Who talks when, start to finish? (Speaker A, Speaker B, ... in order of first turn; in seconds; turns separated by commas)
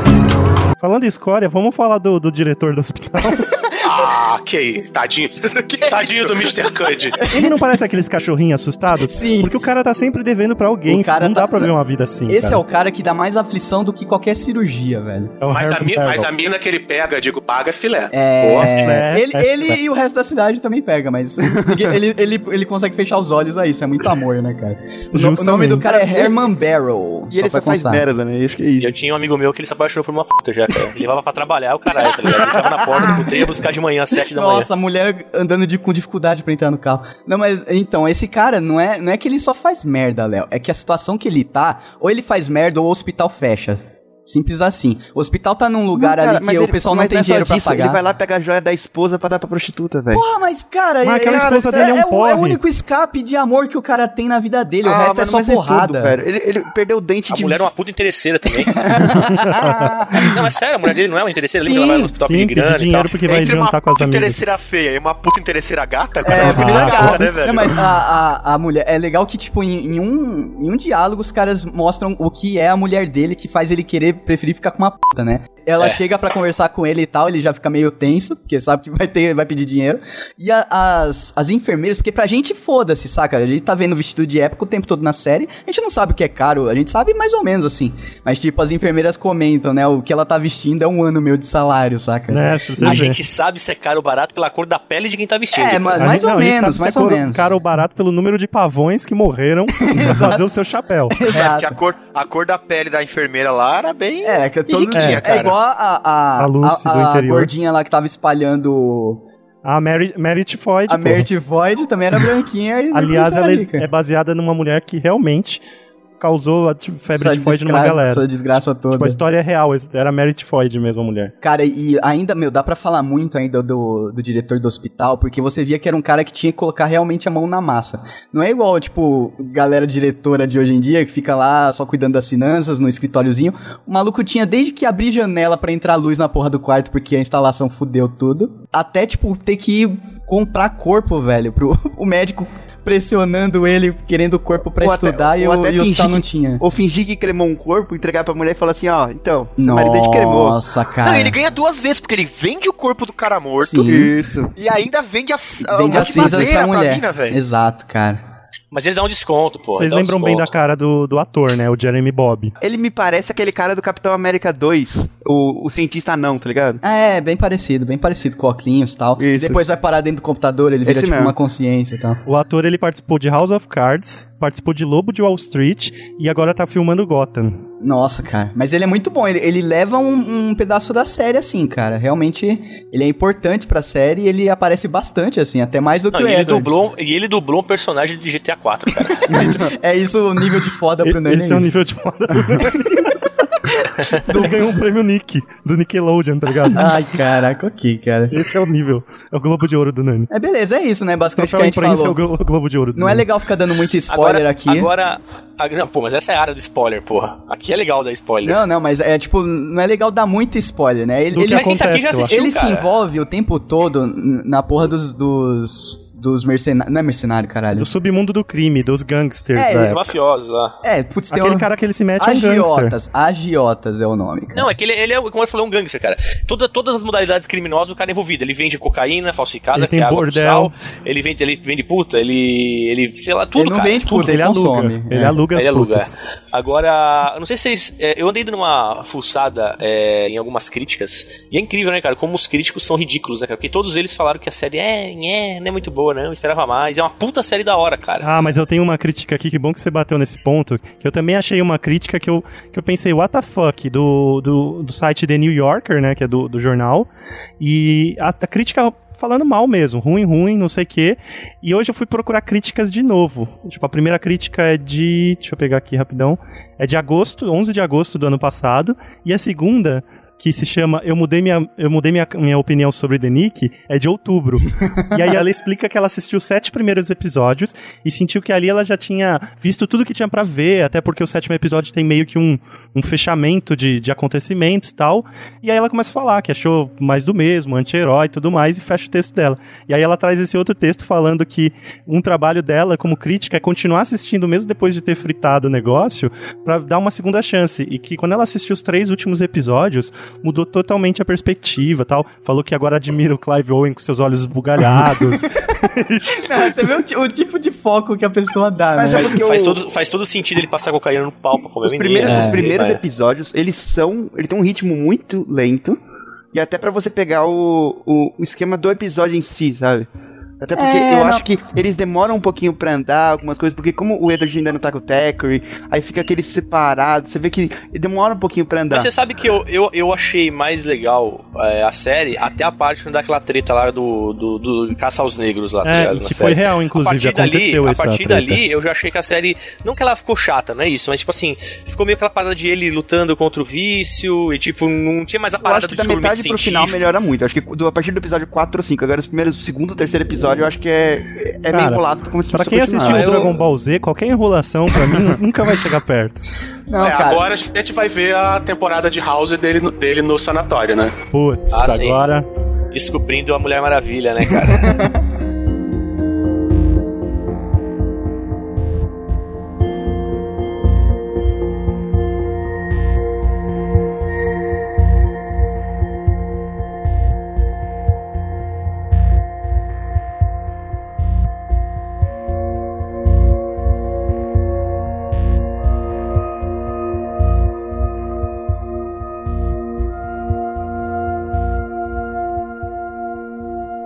Speaker A: 0.8-3.6, Speaker B: 3.8-7.3, Speaker C: 5.5-7.1, Speaker D: 7.2-7.5, Speaker A: 7.2-12.6, Speaker D: 8.9-9.6, Speaker D: 10.8-11.7, Speaker D: 12.3-15.3, Speaker A: 15.4-16.3, Speaker B: 15.5-18.1, Speaker D: 18.1-28.0, Speaker E: 18.4-18.7, Speaker A: 18.6-19.8, Speaker F: 21.4-22.0, Speaker A: 25.1-25.9, Speaker F: 25.8-26.6, Speaker F: 27.3-28.9, Speaker E: 28.8-34.7, Speaker D: 34.3-48.0, Speaker F: 45.9-50.3, Speaker D: 50.1-56.2, Speaker A: 51.0-52.6, Speaker F: 54.8-57.7, Speaker E: 57.3-59.0, Speaker D: 58.7-60.3, Speaker A: 59.0-60.0, Speaker E: 60.1-63.1, Speaker D: 61.5-62.1, Speaker A: 62.2-64.4, Speaker C: 63.2-67.8, Speaker D: 66.2-93.1, Speaker A: 66.3-67.3, Speaker A: 92.3-93.2, Speaker E: 92.8-96.0, Speaker D: 95.5-97.5, Speaker A: 96.0-101.3, Speaker D: 99.8-100.5, Speaker D: 101.1-101.7, Speaker C: 101.2-105.6, Speaker D: 104.2-109.2, Speaker A: 104.9-105.2, Speaker A: 106.4-107.5, Speaker A: 109.6-111.3, Speaker D: 110.9-113.8, Speaker A: 112.9-115.6, Speaker A: 116.2-118.3, Speaker D: 117.1-119.2, Speaker A: 118.9-121.3, Speaker D: 121.4-146.6, Speaker F: 144.8-150.6, Speaker D: 149.6-151.4, Speaker C: 151.0-157.4, Speaker D: 153.6-154.1, Speaker F: 153.8-154.5, Speaker D: 155.6-158.2, Speaker F: 155.9-156.6, Speaker E: 158.7-160.5, Speaker A: 159.7-162.5, Speaker F: 162.6-166.8, Speaker D: 166.8-172.2, Speaker F: 169.2-169.6, Speaker F: 170.8-171.3, Speaker A: 172.2-177.6, Speaker D: 177.8-186.8, Speaker E: 186.1-189.4, Speaker D: 189.2-191.7, Speaker A: 191.0-197.0, Speaker D: 192.3-193.2, Speaker D: 193.7-194.8, Speaker D: 196.7-198.4, Speaker A: 198.3-200.3, Speaker D: 200.3-202.2, Speaker A: 201.4-203.3, Speaker D: 202.9-204.9, Speaker E: 204.1-208.6, Speaker D: 208.4-217.9, Speaker A: 211.3-212.3, Speaker E: 211.4-212.9, Speaker A: 217.8-220.0, Speaker D: 219.5-220.0, Speaker E: 219.8-220.7, Speaker D: 220.8-224.7, Speaker A: 221.3-222.9, Speaker E: 224.5-234.3, Speaker A: 229.7-230.7, Speaker D: 233.6-235.4, Speaker A: 234.1-236.1, Speaker E: 235.5-248.3, Speaker A: 248.2-257.1, Speaker A: 257.6-307.0, Speaker D: 274.9-275.4, Speaker D: 305.0-305.8, Speaker D: 306.3-309.4, Speaker F: 308.9-309.8, Speaker E: 309.1-313.0, Speaker F: 311.8-316.0, Speaker D: 312.2-312.6, Speaker F: 316.5-320.1, Speaker F: 320.6-329.1, Speaker D: 320.7-321.5, Speaker E: 328.9-347.0, Speaker A: 335.8-338.6, Speaker F: 345.6-353.4, Speaker A: 351.7-352.0, Speaker A: 352.5-356.4, Speaker E: 353.0-353.6, Speaker D: 356.9-357.4, Speaker B: 357.0-361.2, Speaker A: 361.3-362.5, Speaker E: 361.7-362.2, Speaker E: 362.9-365.1, Speaker D: 364.7-365.1